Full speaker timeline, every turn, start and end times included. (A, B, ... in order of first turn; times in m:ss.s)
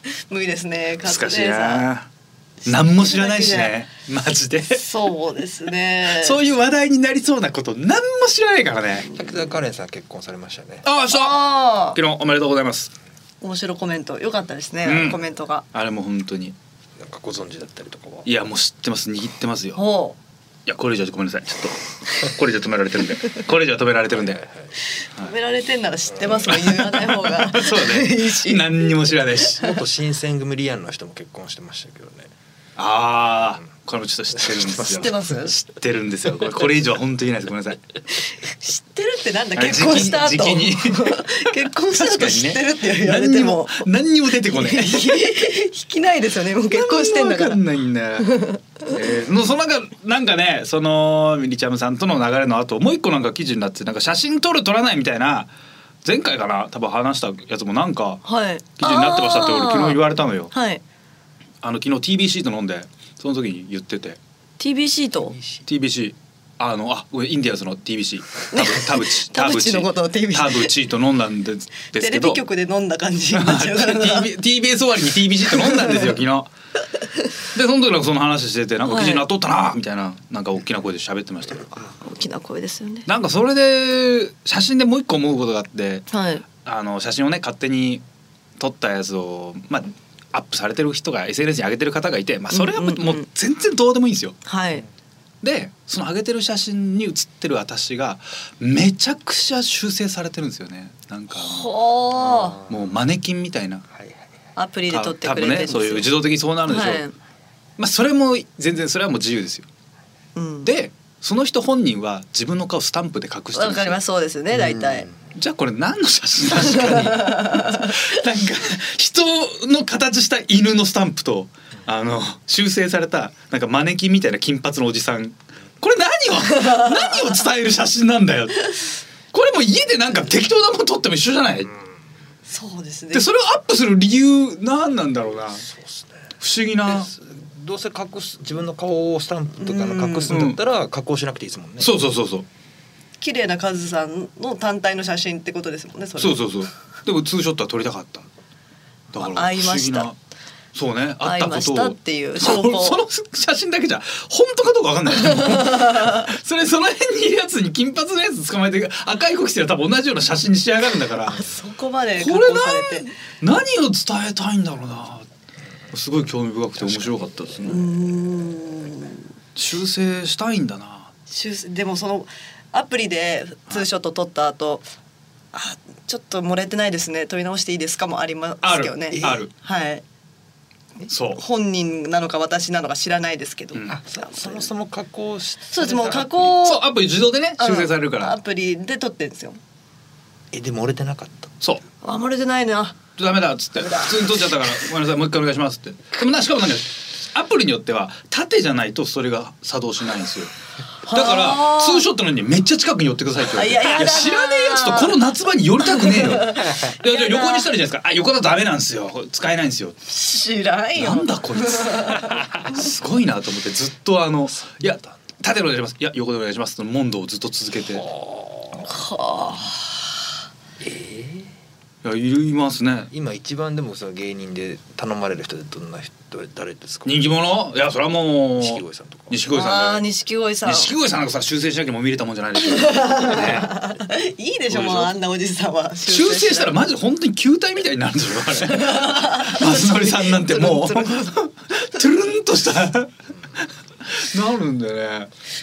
0:00.2-0:01.9 A
0:01.0-0:02.1 B
0:02.7-0:04.8 B
0:02.7-0:03.7 A
0:04.7-0:06.4 A
0:06.1-0:09.1 B
0:09.0-0:09.3 A
0:09.1-0:10.8 C
0:10.8-0:12.9 B
0:11.1-0:12.0 A
0:13.4-0:15.6 A
0:14.8-0:15.2 B
0:15.7-0:16.6 B
0:17.0-0:18.3 C
0:18.3-0:19.8 B
0:19.8-0:20.2 A
0:20.7-0:24.4 B
0:24.3-0:24.7 C
0:25.2-0:28.9 A
0:26.4-0:29.8 B
0:29.6-0:32.3 C
0:32.8-0:37.8 B
0:34.7-0:35.5 A
0:38.4-0:43.9 A
0:39.6-0:45.2 B
0:44.4-0:47.6 A
0:46.7-0:48.3 B
0:48.2-0:48.9 A
0:48.9-0:55.5 B
0:56.0-0:58.2 B
0:58.2-1:00.8 A
0:58.8-1:00.5 B
1:01.6-1:04.2 B
1:04.6-1:05.4 A
1:05.3-1:05.6 C
1:05.7-1:12.4 B
1:08.5-1:10.7 A
1:12.0-1:14.3 A
1:13.3-1:16.5 B
1:15.6-1:16.0 A
1:17.5-1:21.9 B
1:18.9-1:19.3 A
1:22.0-1:23.1 A
1:23.1-1:26.1 B
1:26.1-1:26.4 A
1:26.6-1:28.0 B
1:28.6-1:34.4 B
1:32.5-1:33.3 A
1:34.5-1:34.8 A
1:35.4-1:41.7 B
1:41.3-1:42.6 A
1:42.2-1:42.8 C
1:42.7-1:43.9 B
1:43.9-1:44.3 C
1:44.6-1:46.1 A
1:44.9-1:47.0 B
1:46.7-1:47.1 A
1:47.8-1:49.7 B
1:50.4-1:50.7 A
1:50.6-1:54.0 B
1:53.6-1:55.1 A
1:54.5-1:55.2 C
1:55.4-2:08.7 B
1:56.6-1:58.1 A
2:06.5-2:07.4 A
2:09.3-2:11.7 B
2:12.5-2:13.3 A
2:13.1-2:15.7 B
2:15.6-2:21.9 C
2:16.4-2:17.1 B
2:19.6-2:20.4 A
2:20.3-2:20.6 B
2:21.8-2:22.5 B
2:23.2-2:26.4 A
2:26.2-2:28.3 B
2:29.1-2:30.2 B
2:29.2-2:30.1 A
2:30.7-2:41.4 B
2:31.2-2:33.0 A
2:35.1-2:36.3 A
2:41.3-2:43.1 A
2:42.2-2:45.3 B
2:45.9-2:47.8 B
2:46.8-2:47.8 C
2:47.6-2:49.2 A
2:49.6-2:51.1 B
2:51.3-2:54.9 A
2:55.5-3:00.0 A
2:58.6-2:59.5 B
2:59.1-2:59.4 C
3:01.0-3:04.7 A
3:01.1-3:01.4 B
3:03.9-3:06.6 C
3:05.7-3:06.9 A
3:06.6-3:08.4 B
3:07.6-3:09.6 A
3:10.5-3:11.6 C
3:12.0-3:13.0 A
3:13.2-3:20.5 B
3:13.8-3:14.4 A
3:21.1-3:22.1 A
3:21.1-3:30.0 B
3:23.5-3:25.2 A
3:25.8-3:27.7 A
3:30.1-3:32.7 A
3:31.0-3:38.1 B
3:34.7-3:35.1 C
3:37.8-3:39.0 C
3:38.8-3:40.1 A
3:40.8-3:41.5 C
3:42.0-3:43.1 B
3:43.1-3:47.4 C
3:47.1-3:50.0 B
3:48.6-3:49.4 C
3:49.5-3:50.9 A
3:50.7-3:53.7 B
3:52.6-3:56.8 A
3:54.7-3:55.2 B
3:56.1-4:03.1 B
3:58.7-4:01.4 A
4:04.0-4:05.3 B